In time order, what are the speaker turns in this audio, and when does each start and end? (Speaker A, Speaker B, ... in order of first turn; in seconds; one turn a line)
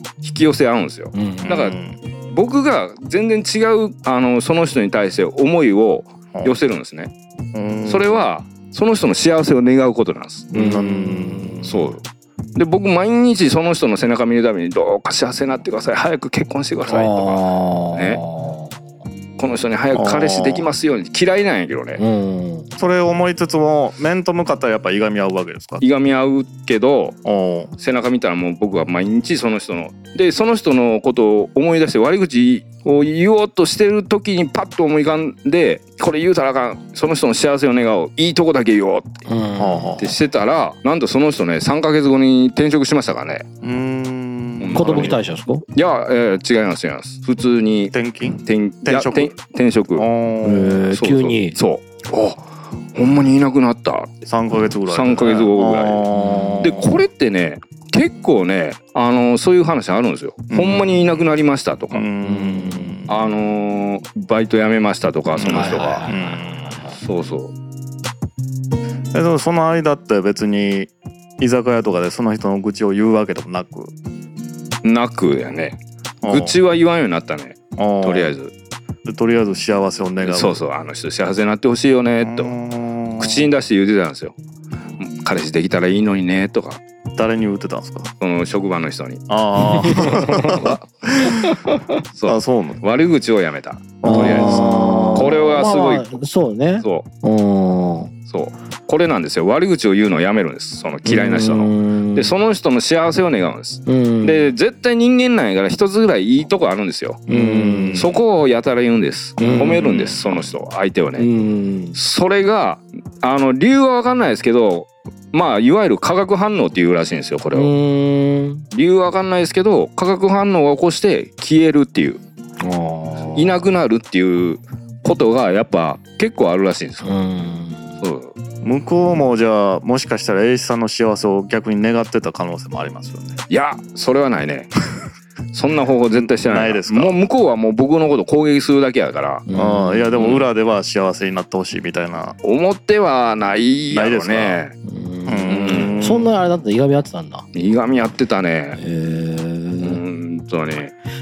Speaker A: 0.2-1.8
Speaker B: 1.1-1.5
Speaker C: 1.4-2.0
Speaker A: 2.3-7.1
Speaker C: 7.5-8.1
Speaker A: 7.9-10.5
Speaker C: 10.5-11.9
Speaker B: 10.5-11.8
Speaker A: 11.6-12.0
Speaker A: 12.6-18.2
Speaker B: 16.9-18.7
Speaker A: 19.4-22.0
Speaker C: 19.9-20.7
Speaker B: 22.0-22.7
Speaker C: 22.8-25.8
Speaker A: 25.8-27.2
Speaker C: 27.2-27.7
Speaker A: 27.8-39.2
Speaker B: 39.3-40.0
Speaker C: 39.6-40.2
Speaker A: 40.0-43.5
Speaker C: 43.6-45.2
Speaker A: 44.6-45.2
Speaker B: 44.8-45.6
Speaker A: 45.7-50.1
Speaker C: 47.9-49.3
Speaker C: 50.0-50.9
Speaker B: 50.4-51.5
Speaker A: 50.9-54.1
Speaker C: 54.2-57.0
Speaker A: 54.9-56.1
Speaker B: 56.1-56.7
Speaker A: 56.6-62.1
Speaker C: 60.5-61.2
Speaker C: 61.9-63.1
Speaker B: 62.2-63.0
Speaker A: 63.1-66.1
Speaker C: 65.3-66.8
Speaker B: 65.5-67.0
Speaker A: 67.0-67.5
Speaker C: 69.1-73.9
Speaker A: 74.8-78.5
Speaker C: 76.2-76.6
Speaker C: 77.8-78.3
Speaker C: 79.0-80.6
Speaker A: 80.2-82.5
Speaker C: 82.2-83.5
Speaker A: 83.2-84.3
Speaker A: 85.0-86.8
Speaker C: 87.2-88.1
Speaker A: 88.2-89.2
Speaker C: 89.3-91.6
Speaker B: 89.7-90.7
Speaker B: 91.4-92.0
Speaker A: 92.2-96.2
Speaker C: 92.3-92.8
Speaker C: 94.0-95.6
Speaker B: 94.0-98.1
Speaker A: 98.3-111.3
Speaker B: 101.1-102.3
Speaker B: 103.9-104.5
Speaker B: 107.3-108.1
Speaker B: 109.4-109.9
Speaker C: 109.4-110.5
Speaker B: 111.2-112.0
Speaker A: 112.0-117.7
Speaker B: 117.5-118.7
Speaker A: 118.7-122.2
Speaker B: 122.6-123.6
Speaker A: 123.3-127.1
Speaker B: 127.0-127.8
Speaker A: 128.0-128.3
Speaker C: 128.6-133.4
Speaker A: 133.5-134.7
Speaker A: 135.5-139.4
Speaker C: 136.2-137.2
Speaker B: 139.5-140.1
Speaker C: 139.5-142.4
Speaker A: 140.2-140.4
Speaker A: 142.4-144.7
Speaker C: 143.9-144.6
Speaker B: 144.8-147.4
Speaker C: 145.3-146.3
Speaker A: 145.5-146.0
Speaker A: 147.5-148.8
Speaker B: 148.8-150.0
Speaker A: 149.8-150.9